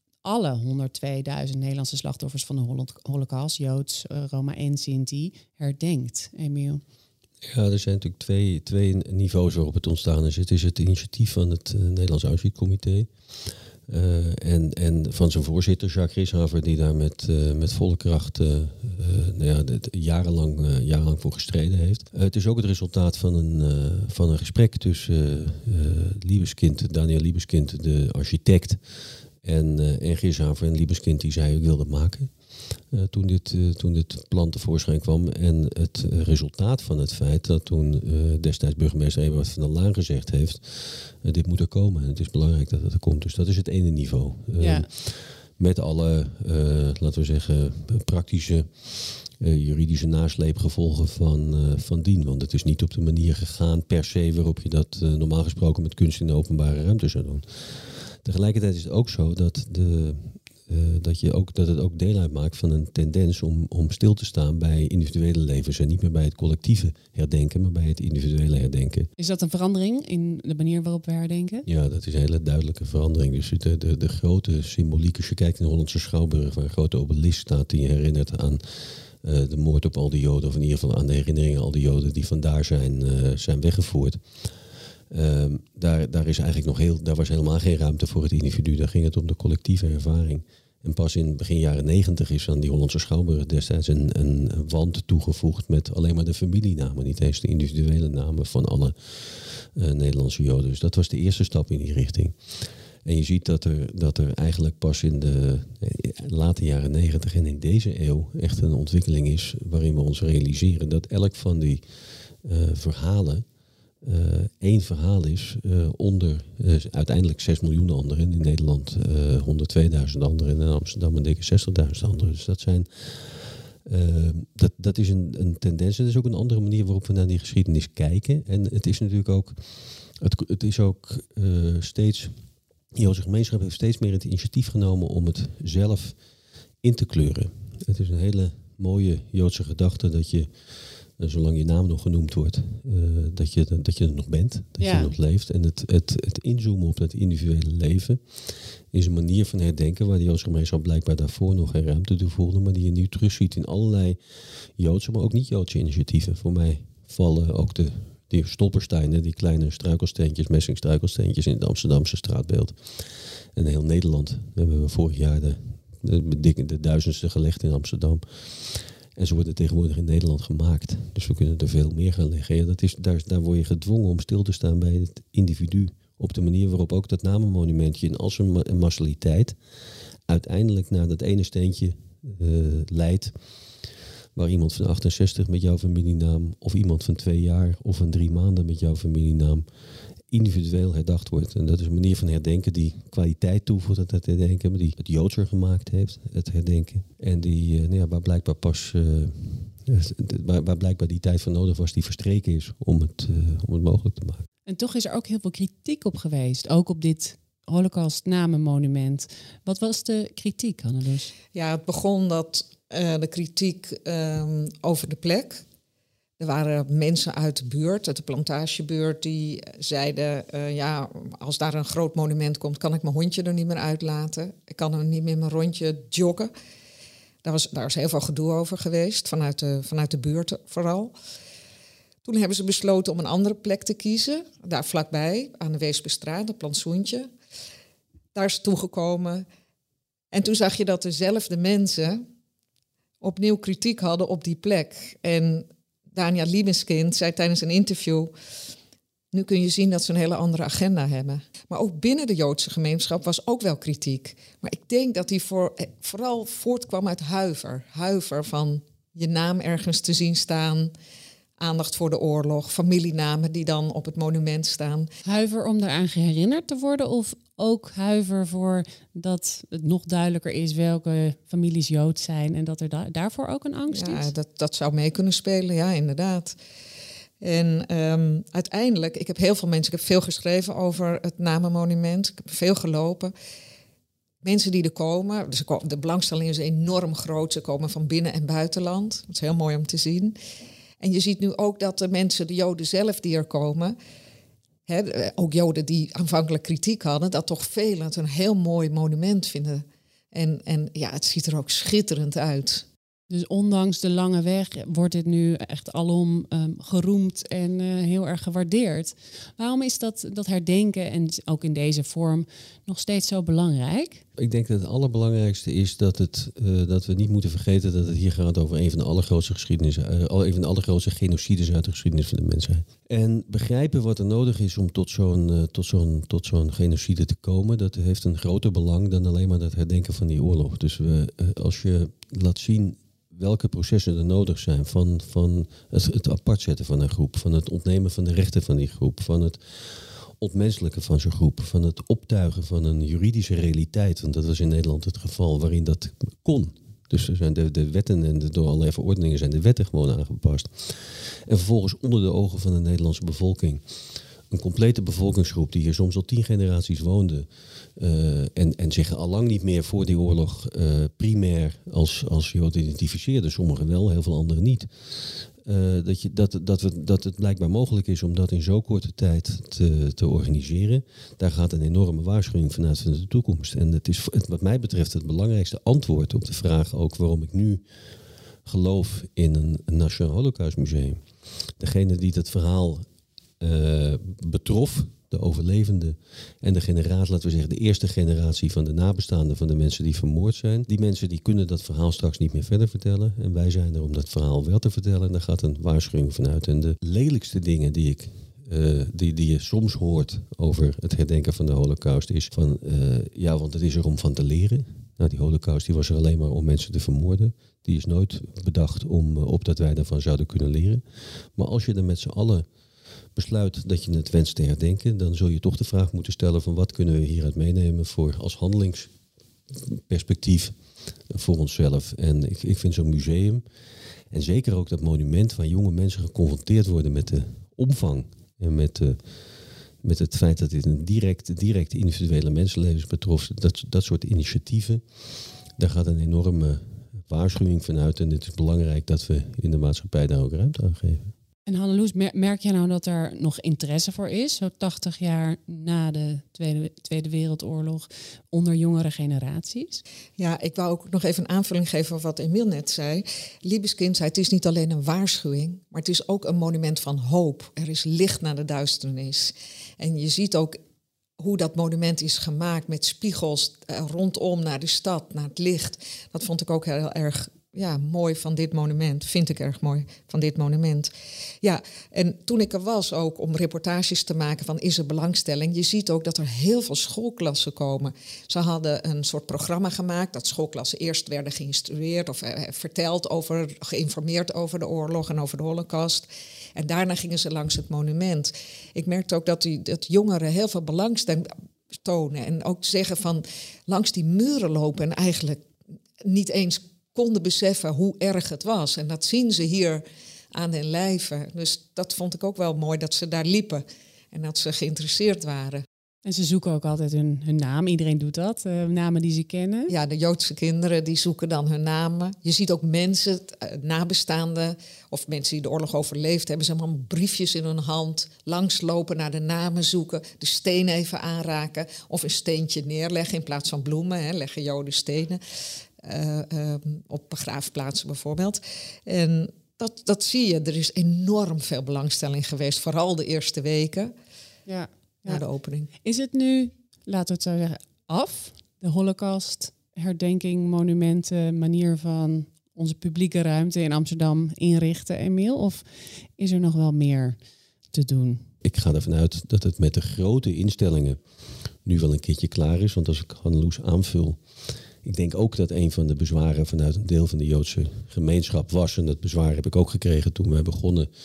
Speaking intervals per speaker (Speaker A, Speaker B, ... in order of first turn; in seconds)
Speaker A: 0.2-6.8, 44.6-44.9, 69.2-71.7, 144.8-145.1, 204.7-211.3, 265.2-274.3, 303.3-314.2, 441.6-450.0, 506.2-509.9, 534.7-535.4, 536.0-545.8, 546.4-547.4, 547.9-548.5
Speaker B: 7.4-13.1, 13.9-28.8, 29.4-32.3, 32.9-69.1, 71.6-84.2, 85.1-102.3, 103.0-111.8, 112.4-113.4, 114.0-129.6, 130.2-132.3, 132.9-136.2, 136.8-140.5, 141.2-148.2, 148.9-154.2, 154.8-162.8, 163.5-179.6, 180.3-183.3, 184.3-189.6, 190.3-204.4, 314.4-353.8, 354.5-377.8, 378.6-381.2, 381.8-383.1, 383.6-412.7, 413.3-419.1, 419.7-420.8, 421.3-423.6, 424.3-429.2, 430.0-435.0, 435.8-441.3, 548.6-551.2, 551.8-554.4, 555.0-561.1
Speaker C: 211.5-215.6, 216.4-226.5, 227.4-231.1, 232.2-237.3, 238.3-239.4, 240.3-242.2, 243.2-248.3, 249.3-260.9, 261.6-265.1, 273.9-276.6, 277.4-283.3, 284.4-290.4, 291.0-293.9, 294.9-302.8, 450.4-460.8, 461.4-471.1, 471.6-495.6, 496.2-505.8, 509.9-525.4, 526.0-534.1, 535.3-535.9